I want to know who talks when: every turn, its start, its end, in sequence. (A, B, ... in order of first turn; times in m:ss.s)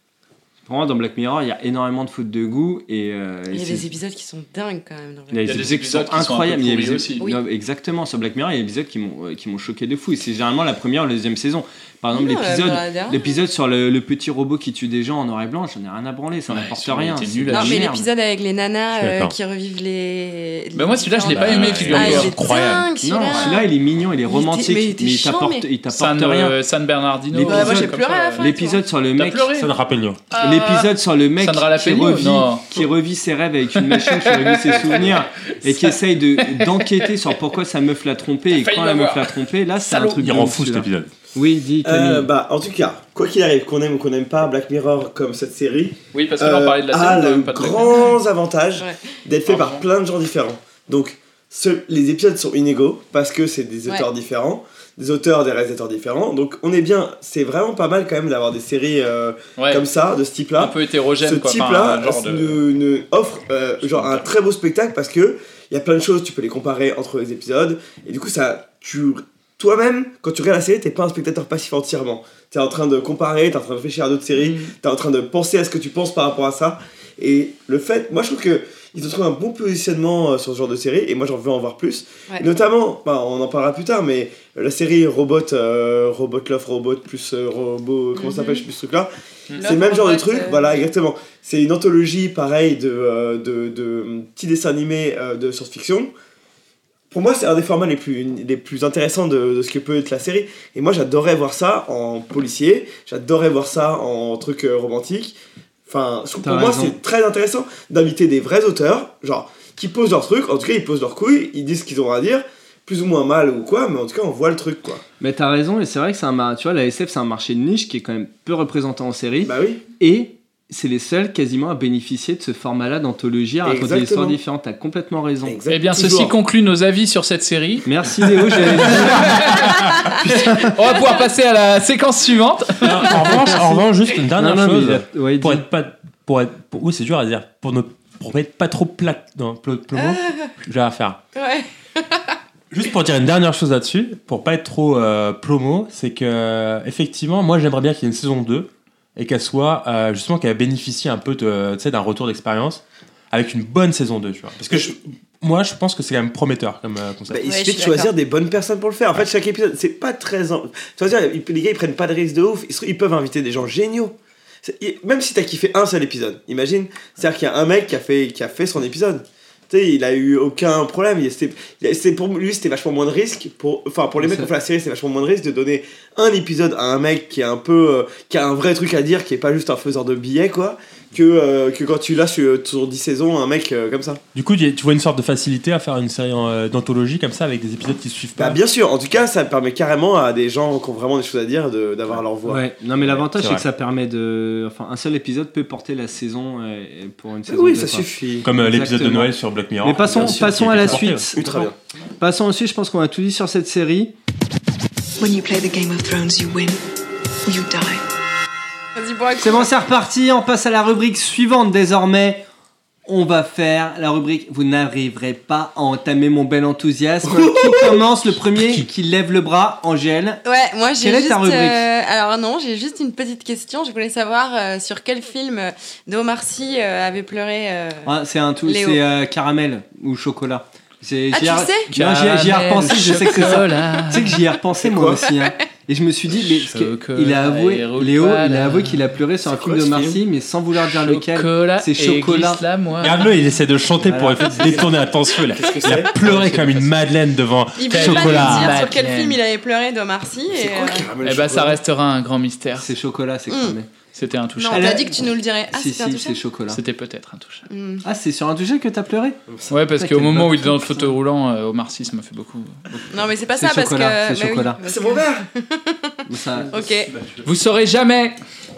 0:00.6-0:03.9 A
0:03.5-0:05.7 B
0:05.3-0:18.1 A
0:05.4-0:07.2 C
0:12.1-0:13.4 B
0:16.5-0:17.8 C
0:17.5-0:23.7 B
0:19.0-0:19.3 D
0:20.7-0:22.3 C
0:21.3-0:22.9 D
0:23.0-0:26.6 A
0:24.2-0:25.7 B
0:25.9-0:28.5 C
0:27.3-0:29.5 A
0:27.4-0:28.8 B
0:29.1-0:29.7 C
0:29.5-0:30.2 D
0:30.3-0:32.8 C
0:30.4-0:42.3 A
0:33.8-0:37.3 C
0:38.5-0:40.2 C
0:40.1-0:41.1 D
0:41.8-1:29.1 E
0:46.1-0:48.1 C
0:48.8-0:49.2 B
0:49.4-0:49.8 C
0:59.6-0:59.8 C
1:00.6-1:02.6 C
1:03.9-1:04.2 C
1:28.1-1:28.6 B
1:29.6-1:30.8 B
1:29.6-1:36.1 E
1:37.1-1:55.0 E
1:46.4-1:47.0 A
1:55.2-2:05.6 A
1:59.4-1:59.8 E
2:03.6-2:04.4 E
2:05.4-2:06.3 E
2:05.7-2:07.9 C
2:07.8-2:09.4 A
2:08.6-2:13.4 C
2:09.3-2:09.7 D
2:10.2-2:10.7 A
2:12.8-2:21.2 D
2:13.6-2:13.8 A
2:14.4-2:15.6 A
2:19.9-2:20.5 B
2:21.3-2:22.4 B
2:22.7-2:37.5 D
2:37.3-3:04.2 E
2:37.4-2:38.1 B
2:54.2-2:54.5 A
3:04.3-3:08.6 D
3:08.4-3:12.6 E
3:12.4-3:21.7 A
3:13.1-3:13.6 D
3:17.5-3:18.5 E
3:18.4-3:21.6 D
3:20.0-3:21.7 E
3:22.2-3:24.1 A
3:25.2-3:26.8 F
3:27.4-3:28.0 F
3:29.0-3:29.7 B
3:29.4-3:32.4 A
3:33.0-3:40.4 A
3:37.2-3:38.0 E
3:40.4-3:48.1 B
3:41.0-3:41.8 A
3:48.0-4:02.6 A
3:48.6-3:49.0 B
3:51.3-3:51.9 B
3:51.9-3:54.4 C
3:54.8-3:55.2 E
3:56.4-3:59.0 C
3:59.4-4:00.2 E
4:00.8-4:03.2 C
4:03.0-4:08.8 D
4:04.0-4:04.9 A
4:05.5-4:06.7 E
4:06.2-4:06.6 C
4:07.8-4:11.1 B
4:07.9-4:09.4 C
4:10.5-4:11.8 E
4:11.2-4:12.9 C
4:12.8-4:13.9 A
4:13.5-4:13.8 B
4:14.1-4:14.9 C
4:14.6-4:16.4 B
4:14.7-4:15.2 A
4:15.7-4:16.8 A
4:16.7-4:17.6 C
4:17.7-4:18.0 B
4:18.0-4:19.4 A
4:19.7-4:22.8 C
4:19.9-4:21.1 A
4:23.1-4:26.2 B
4:23.5-4:24.8 A
4:24.8-4:25.4 E
4:26.3-4:26.7 A
4:26.7-4:27.1 B
4:27.1-4:27.5 D
4:27.4-4:28.4 C